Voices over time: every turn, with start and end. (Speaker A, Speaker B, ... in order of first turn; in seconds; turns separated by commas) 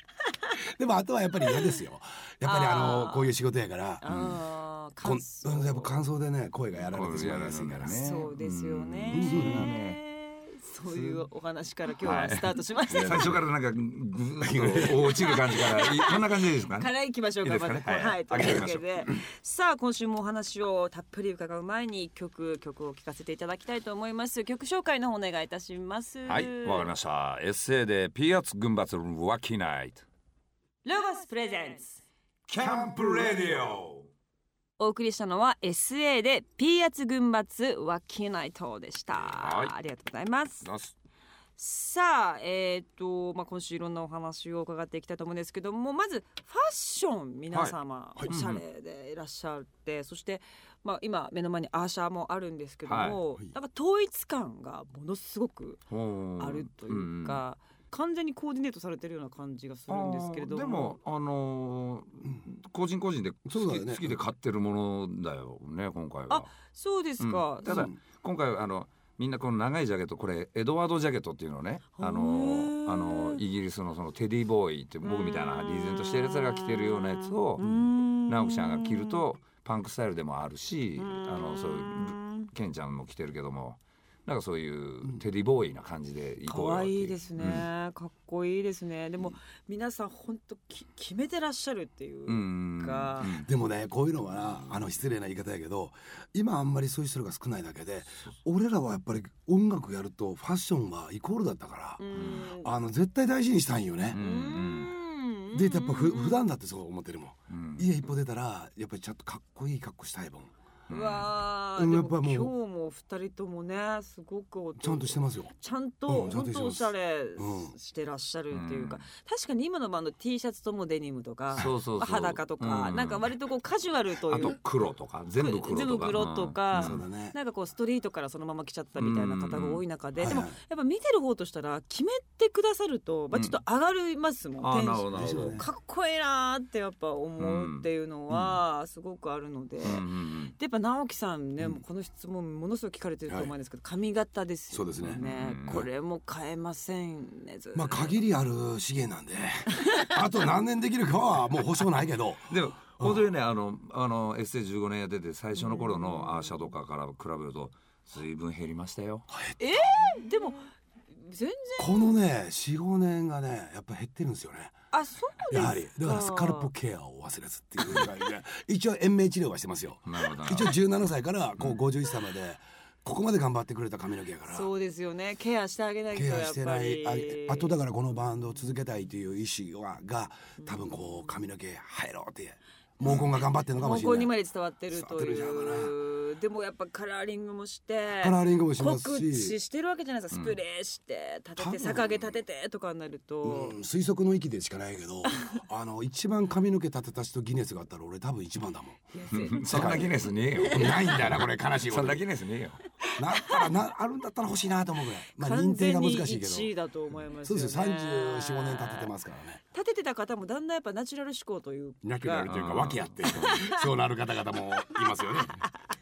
Speaker A: 0.2-0.6, Speaker B: 0.7-4.1, Speaker A: 1.5-1.8, Speaker A: 2.5-3.3, Speaker A: 4.0-5.9, Speaker C: 4.1-4.4, Speaker B: 5.0-8.0, Speaker C: 6.8-10.0, Speaker A: 8.0-13.4, Speaker B: 9.1-9.7, Speaker C: 10.9-11.2, Speaker C: 12.0-19.1, Speaker B: 12.9-13.4, Speaker B: 14.4-15.2, Speaker A: 15.2-26.9, Speaker C: 26.3-30.1, Speaker A: 30.8-32.0, Speaker C: 32.5-34.1, Speaker B: 32.6-33.5, Speaker A: 34.8-40.7, Speaker C: 39.1-39.7, Speaker C: 40.6-40.9, Speaker A: 41.6-55.8, Speaker C: 48.3-48.6, Speaker C: 52.9-53.2, Speaker C: 55.9-57.4, Speaker A: 56.4-61.0, Speaker C: 59.9-66.5, Speaker B: 63.5-64.2, Speaker A: 66.3-67.9, Speaker C: 67.2-87.7, Speaker B: 67.7-68.0, Speaker A: 72.0-73.4, Speaker A: 75.0-79.2, Speaker A: 81.0-82.5, Speaker A: 86.5-93.4, Speaker C: 92.3-93.5, Speaker B: 93.4-104.2, Speaker A: 102.0-102.7, Speaker C: 102.2-102.4, Speaker C: 104.1-104.9, Speaker A: 104.2-106.5, Speaker B: 105.5-110.5, Speaker C: 107.5-107.9, Speaker C: 110.9-111.3, Speaker A: 110.9-124.6, Speaker B: 111.8-112.5, Speaker B: 114.8-115.5, Speaker B: 116.1-117.8, Speaker C: 118.5-119.0, Speaker C: 121.5-123.3, Speaker C: 124.3-127.0, Speaker A: 125.4-148.2, Speaker B: 126.7-127.4, Speaker C: 129.0-129.8, Speaker B: 130.2-130.6, Speaker C: 133.3-133.6, Speaker C: 134.6-135.6, Speaker B: 135.1-135.7, Speaker C: 137.4-138.6, Speaker C: 139.8-140.6, Speaker B: 144.7-145.2, Speaker C: 145.0-145.9, Speaker B: 147.7-153.2, Speaker A: 149.7-150.2, Speaker C: 152.5-159.3, Speaker A: 155.6-156.5, Speaker B: 159.3-159.7, Speaker A: 159.6-162.1, Speaker B: 161.8-164.7, Speaker A: 164.9-166.7, Speaker B: 165.5-174.7, Speaker C: 170.1-170.8, Speaker A: 174.5-177.8, Speaker B: 176.1-184.3, Speaker A: 180.6-181.4, Speaker A: 183.8-193.8, Speaker B: 184.9-185.9, Speaker B: 188.2-189.6, Speaker C: 190.3-190.6, Speaker B: 191.6-192.0, Speaker B: 193.4-202.3, Speaker A: 199.1-200.1, Speaker C: 199.3-202.8, Speaker A: 200.6-201.1, Speaker A: 203.0-203.7, Speaker B: 203.2-206.7, Speaker A: 205.4-209.1, Speaker B: 207.4-209.6, Speaker A: 209.7-212.5, Speaker B: 212.0-215.7, Speaker C: 212.5-213.5, Speaker A: 213.3-213.8, Speaker A: 214.9-215.7